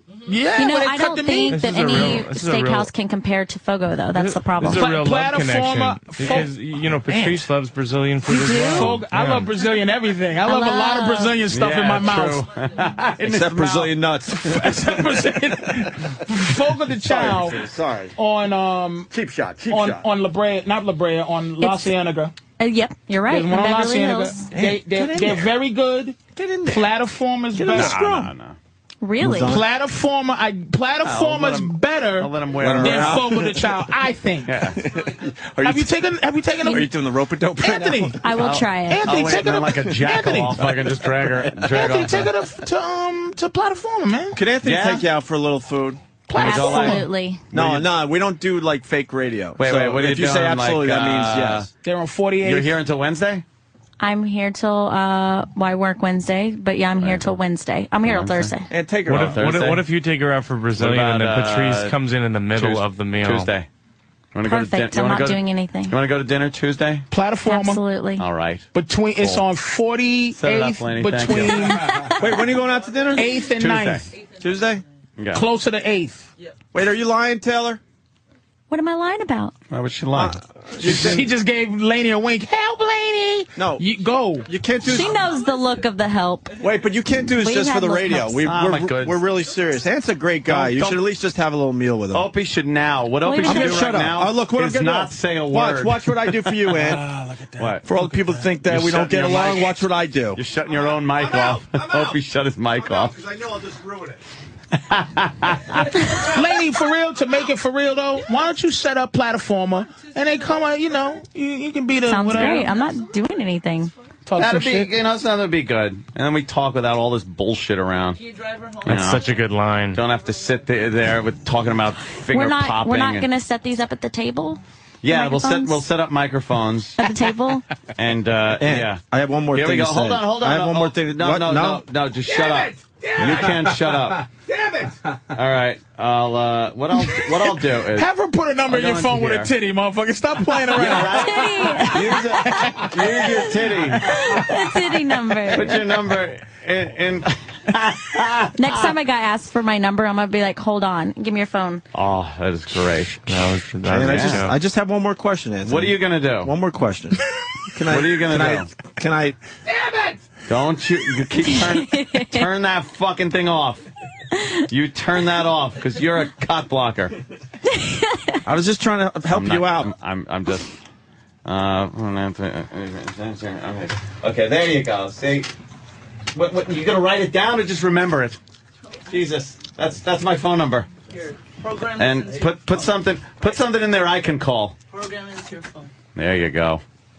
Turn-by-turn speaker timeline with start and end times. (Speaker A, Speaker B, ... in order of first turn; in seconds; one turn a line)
Speaker A: 0.2-2.2
Speaker B: 0.5-5.0
Speaker C: 1.5-2.9
Speaker C: 4.1-9.5
Speaker A: 4.6-6.6
Speaker A: 7.1-7.4
Speaker A: 8.2-12.4
Speaker B: 10.4-11.3
Speaker D: 11.5-13.9
Speaker E: 13.2-15.3
Speaker A: 14.3-17.6
Speaker E: 16.9-18.1
Speaker A: 18.1-19.1
Speaker E: 19.1-20.0
Speaker A: 19.7-22.3
Speaker B: 21.6-21.9
Speaker B: 22.6-24.5
Speaker A: 23.3-28.0
Speaker E: 24.5-25.5
Speaker E: 26.3-26.9
Speaker E: 27.5-28.3
Speaker D: 27.7-28.6
Speaker B: 29.0-29.6
Speaker E: 29.2-29.6
Speaker A: 29.4-34.5
Speaker D: 31.0-33.3
Speaker E: 32.5-33.7
Speaker D: 34.4-34.8
Speaker E: 34.7-35.9
Speaker A: 35.6-36.9
Speaker E: 36.6-38.3
Speaker A: 37.6-38.3
Speaker B: 38.2-39.0
Speaker D: 38.3-42.3
Speaker A: 38.9-40.7
Speaker A: 41.7-44.4
Speaker E: 44.3-46.0
Speaker D: 44.6-45.0
Speaker A: 46.3-47.0
Speaker B: 46.3-47.5
Speaker D: 46.4-47.9
Speaker E: 47.5-51.7
Speaker D: 49.6-51.7
Speaker A: 51.8-52.7
Speaker D: 52.4-53.4
Speaker B: 54.0-58.7
Speaker D: 57.0-57.4
Speaker D: 58.0-58.5
Speaker E: 58.7-59.8
Speaker C: 59.0-63.5
Speaker D: 59.1-59.9
Speaker D: 60.8-62.0
Speaker D: 62.5-63.7
Speaker D: 64.3-67.0
Speaker B: 64.4-66.0
Speaker A: 67.1-67.8
Speaker B: 67.5-68.2
Speaker D: 68.2-68.7
Speaker A: 68.7-72.2
Speaker D: 69.2-69.4
Speaker D: 70.3-72.0
Speaker E: 72.1-73.3
Speaker A: 73.1-74.1
Speaker D: 73.5-74.1
Speaker E: 74.4-74.8
Speaker D: 75.2-75.4
Speaker A: 75.3-76.3
Speaker E: 76.7-77.8
Speaker B: 78.7-79.5
Speaker D: 79.7-81.2
Speaker E: 80.1-81.3
Speaker A: 80.8-84.5
Speaker E: 83.5-83.8
Speaker E: 84.4-85.3
Speaker B: 84.8-86.5
Speaker E: 86.6-92.3
Speaker B: 87.3-88.4
Speaker D: 88.4-89.3
Speaker D: 90.5-91.0
Speaker D: 92.1-96.5
Speaker B: 93.2-94.0
Speaker E: 93.4-97.0
Speaker A: 96.8-98.5
Speaker D: 97.6-97.8
Speaker E: 97.8-102.2
Speaker D: 98.7-99.8
Speaker D: 100.3-103.1
Speaker E: 102.7-104.2
Speaker D: 104.7-105.9
Speaker A: 106.2-112.8
Speaker B: 112.0-113.9
Speaker A: 114.2-114.9
Speaker D: 114.4-118.2
Speaker F: 118.2-118.8
Speaker C: 118.8-120.0
Speaker D: 118.8-119.3
Speaker D: 119.9-123.3
Speaker B: 122.3-125.8
Speaker D: 125.0-126.9
Speaker B: 127.0-127.7
Speaker D: 128.0-129.0
Speaker E: 128.6-131.8
Speaker D: 129.5-134.2
Speaker D: 135.3-138.1
Speaker A: 138.0-142.9
Speaker D: 138.7-139.5
Speaker D: 140.7-144.5
Speaker B: 141.2-142.7
Speaker B: 143.2-143.5
Speaker B: 144.0-145.9
Speaker D: 145.5-148.9
Speaker B: 148.6-151.8
Speaker D: 151.9-154.5
Speaker C: 153.2-154.6
Speaker E: 153.8-157.2
Speaker D: 155.6-156.5
Speaker E: 157.7-159.3
Speaker D: 157.8-158.7
Speaker D: 160.4-163.8
Speaker B: 161.4-162.5
Speaker D: 164.7-167.1
Speaker B: 167.8-168.2
Speaker E: 168.4-169.9
Speaker D: 169.3-170.7
Speaker D: 171.4-175.5
Speaker D: 176.3-178.4
Speaker D: 179.1-180.9
Speaker F: 181.1-182.6
Speaker D: 181.9-184.7
Speaker F: 184.9-185.9
Speaker D: 186.1-186.8